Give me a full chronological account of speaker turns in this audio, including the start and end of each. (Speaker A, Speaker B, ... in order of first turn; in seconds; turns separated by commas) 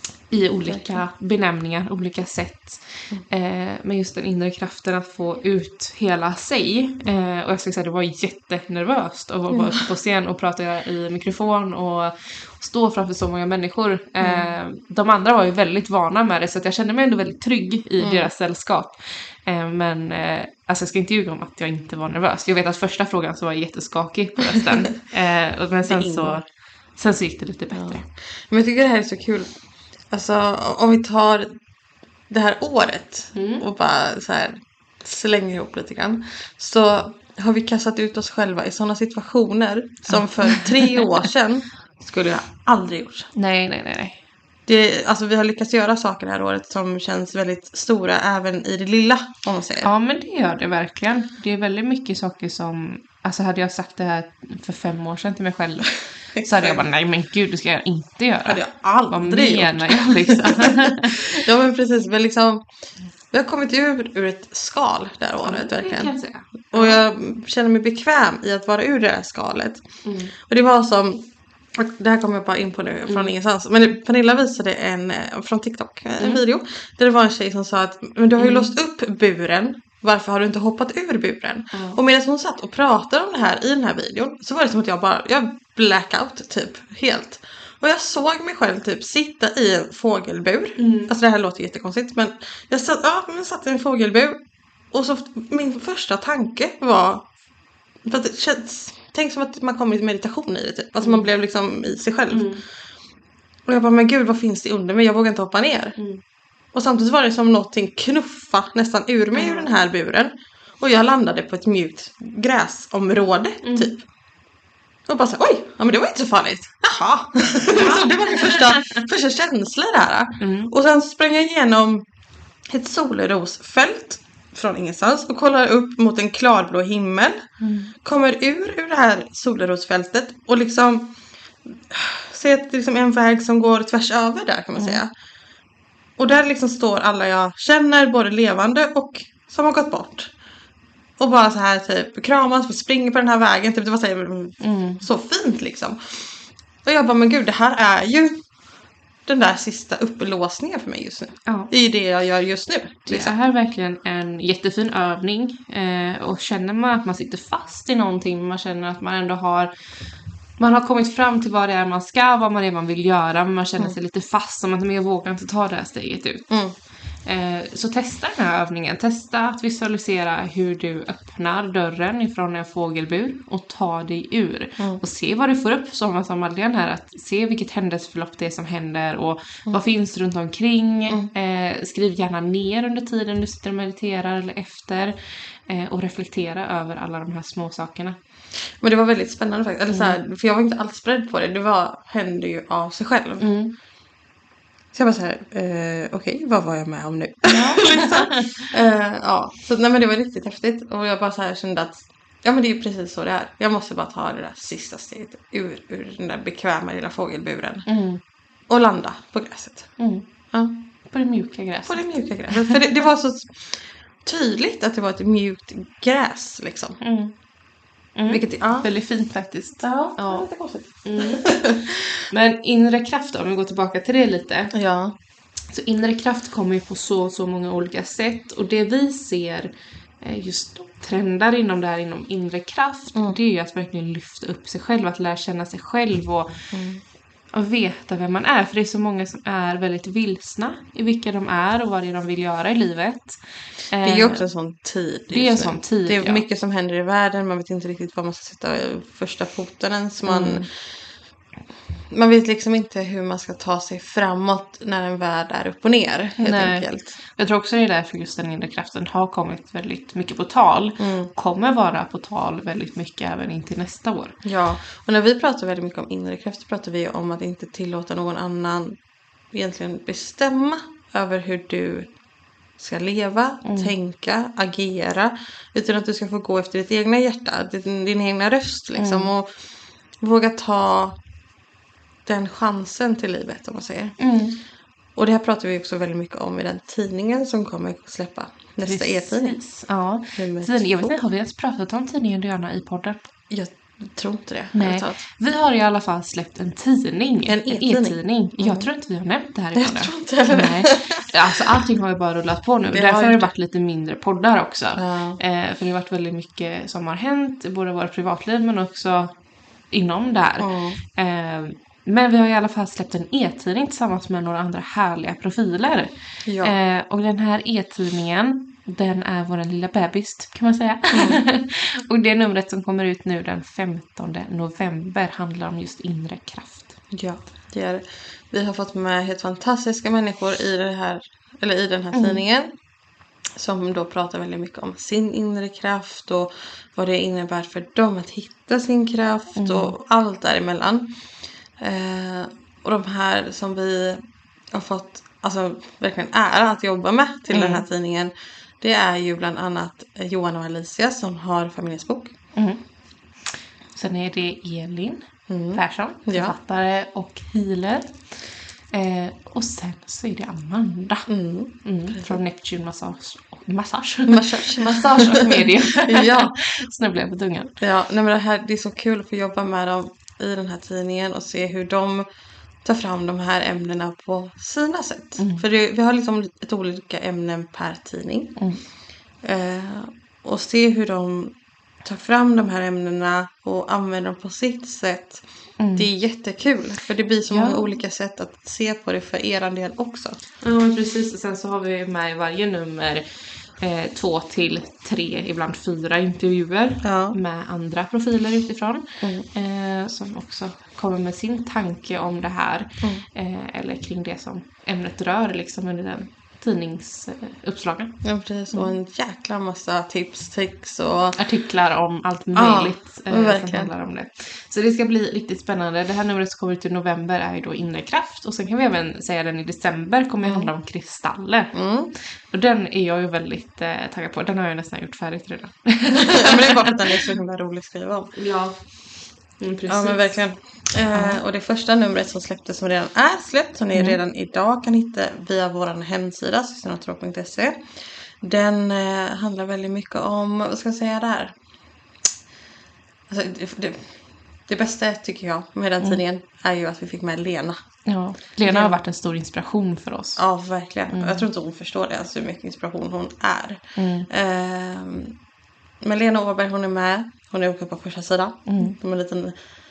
Speaker A: 0.3-26.4, Speaker B: 0.7-1.0, Speaker B: 9.5-9.8, Speaker B: 14.2-14.5, Speaker B: 18.0-18.3, Speaker B: 24.4-24.9, Speaker B: 25.9-26.4, Speaker A: 27.0-28.1, Speaker B: 27.8-29.5, Speaker B: 30.1-31.6, Speaker B: 32.3-43.3, Speaker A: 33.4-33.6, Speaker A: 40.1-41.2, Speaker A: 43.3-44.2, Speaker B: 44.7-49.9, Speaker A: 49.8-61.3, Speaker B: 56.4-56.8, Speaker B: 58.5-62.6, Speaker B: 63.3-66.1, Speaker A: 65.4-67.0, Speaker B: 66.7-69.9, Speaker A: 70.0-70.3, Speaker B: 70.4-71.2, Speaker B: 71.7-94.4, Speaker A: 78.4-78.7, Speaker A: 81.7-82.0, Speaker A: 90.8-91.1, Speaker B: 94.9-97.3, Speaker B: 98.0-102.5, Speaker A: 101.0-101.3, Speaker A: 102.3-102.6, Speaker B: 103.7-106.0, Speaker B: 106.7-114.0, Speaker A: 109.4-109.7, Speaker A: 113.6-113.9, Speaker B: 115.1-122.1, Speaker A: 117.7-119.0, Speaker A: 120.4-120.7, Speaker B: 122.7-127.4, Speaker A: 127.6-127.9, Speaker B: 128.0-131.1, Speaker B: 131.7-135.1, Speaker A: 134.8-135.0, Speaker B: 136.2-140.3, Speaker B: 141.2-148.4, Speaker A: 144.6-145.0, Speaker B: 149.3-153.3, Speaker A: 153.1-159.7, Speaker A: 160.6-166.5, Speaker A: 167.3-185.2, Speaker A: 185.7-188.2, Speaker B: 188.8-193.5, Speaker A: 189.9-190.2, Speaker A: 193.4-193.7, Speaker B: 194.9-207.9, Speaker A: 197.5-198.7, Speaker A: 207.9-208.2, Speaker B: 208.7-209.9, Speaker A: 210.0-210.2, Speaker A: 211.1-212.8, Speaker B: 211.9-217.0, Speaker A: 217.0-217.3, Speaker A: 218.2-220.5, Speaker B: 218.3-218.9, Speaker B: 219.8-222.1, Speaker A: 221.0-221.6, Speaker A: 222.3-224.7, Speaker B: 224.7-225.2, Speaker A: 225.7-229.7, Speaker A: 230.2-236.5, Speaker B: 236.7-237.0, Speaker A: 237.5-244.4, Speaker B: 244.0-250.7, Speaker A: 245.3-246.4, Speaker A: 250.3-250.7, Speaker B: 252.1-257.2, Speaker A: 256.4-264.4, Speaker B: 261.0-261.3, Speaker B: 264.4-269.0, Speaker B: 269.5-272.1, Speaker B: 272.8-279.5, Speaker A: 273.6-273.9, Speaker A: 279.0-279.3, Speaker B: 280.2-281.2, Speaker B: 282.3-284.2, Speaker A: 284.2-284.6, Speaker B: 285.2-289.6, Speaker A: 288.8-293.2, Speaker B: 290.4-291.2, Speaker B: 293.5-295.2, Speaker A: 294.7-309.3, Speaker B: 297.4-298.9, Speaker B: 299.8-301.3, Speaker B: 302.9-303.5, Speaker B: 304.9-305.4, Speaker A: 309.9-316.1, Speaker B: 310.6-311.0, Speaker B: 316.4-316.7, Speaker A: 316.6-326.9, Speaker B: 321.1-321.4, Speaker B: 327.1-332.7, Speaker A: 332.1-332.4, Speaker B: 333.6-341.1, Speaker A: 339.6-339.9, Speaker B: 341.8-352.3, Speaker A: 347.5-347.8, Speaker A: 353.9-358.1, Speaker B: 355.5-356.6, Speaker A: 358.9-361.3, Speaker B: 361.3-362.4, Speaker A: 361.8-367.8, Speaker B: 364.3-366.6, Speaker B: 367.8-372.3, Speaker B: 372.8-378.6, Speaker A: 375.4-375.6, Speaker B: 379.4-385.4, Speaker A: 385.8-386.1, Speaker B: 385.9-390.4, Speaker A: 387.5-387.8, Speaker A: 390.6-393.2, Speaker A: 393.8-408.2, Speaker B: 397.0-397.4, Speaker B: 399.2-399.4, Speaker B: 408.2-411.4, Speaker A: 411.4-421.7, Speaker B: 412.5-413.9, Speaker B: 420.4-420.7, Speaker B: 421.7-422.1, Speaker A: 422.5-427.3, Speaker B: 426.1-428.3, Speaker A: 428.3-428.8, Speaker A: 429.6-430.4, Speaker B: 429.9-437.8, Speaker A: 431.1-431.4, Speaker B: 438.4-441.6, Speaker B: 443.3-444.1, Speaker B: 444.7-447.8, Speaker A: 448.1-450.4, Speaker B: 448.6-449.0, Speaker B: 450.4-455.4, Speaker A: 451.1-451.4, Speaker A: 453.9-454.3, Speaker B: 456.0-459.6, Speaker A: 458.7-458.9